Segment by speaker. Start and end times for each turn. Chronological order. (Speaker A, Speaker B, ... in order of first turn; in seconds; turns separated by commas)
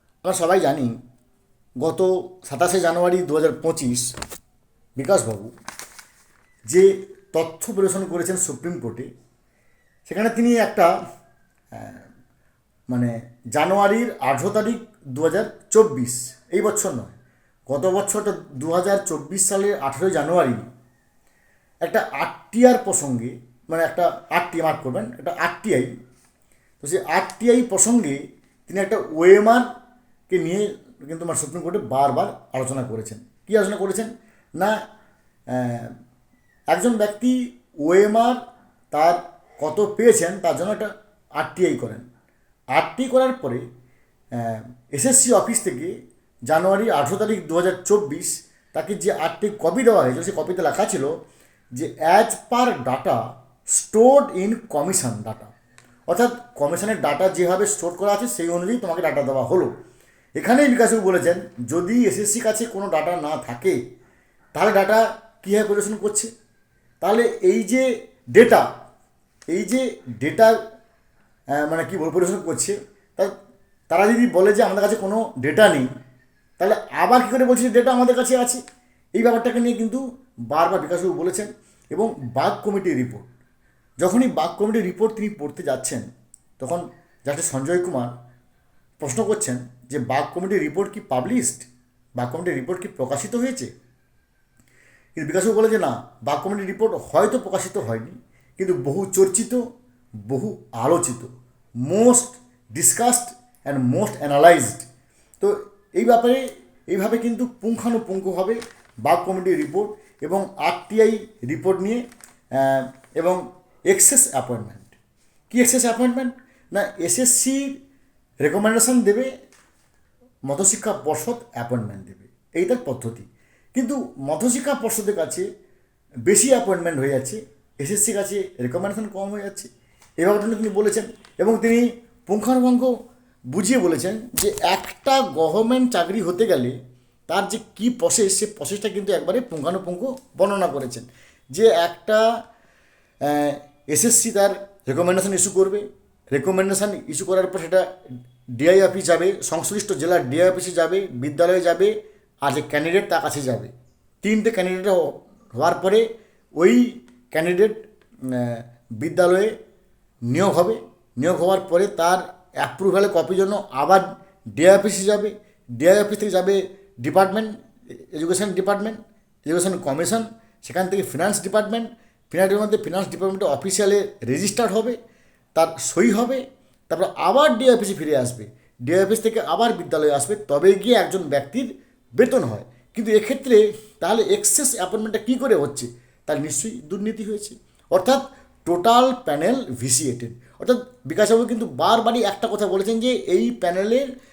Speaker A: 0.2-0.9, Speaker A: 1.8-4.1, Speaker A: 5.0-5.5, Speaker A: 6.7-9.1, Speaker A: 10.1-10.9, Speaker A: 11.7-12.0, Speaker A: 12.9-17.1, Speaker A: 17.7-20.6, Speaker A: 21.8-25.9, Speaker A: 26.8-29.6, Speaker A: 30.3-34.8, Speaker A: 35.5-35.9, Speaker A: 36.7-38.4, Speaker A: 38.9-42.0, Speaker A: 42.7-43.6, Speaker A: 44.3-45.9, Speaker A: 46.5-51.1, Speaker A: 51.7-55.5, Speaker A: 56.1-59.7, Speaker A: 60.4-63.8, Speaker A: 64.5-66.3, Speaker A: 67.0-68.7, Speaker A: 69.5-70.6, Speaker A: 71.6-73.3, Speaker A: 73.9-75.9, Speaker A: 76.6-78.6, Speaker A: 79.1-83.2, Speaker A: 84.0-86.0, Speaker A: 86.6-88.1, Speaker A: 89.0-93.7, Speaker A: 95.2-99.6, Speaker A: 100.2-101.3, Speaker A: 101.8-104.8, Speaker A: 105.4-112.0, Speaker A: 112.6-114.9, Speaker A: 115.5-117.7, Speaker A: 118.4-119.3, Speaker A: 120.5-125.5, Speaker A: 126.3-129.7, Speaker A: 130.2-132.9, Speaker A: 133.5-136.8, Speaker A: 137.3-142.2, Speaker A: 143.2-147.8, Speaker A: 148.6-159.5, Speaker A: 160.3-175.0, Speaker A: 175.5-194.0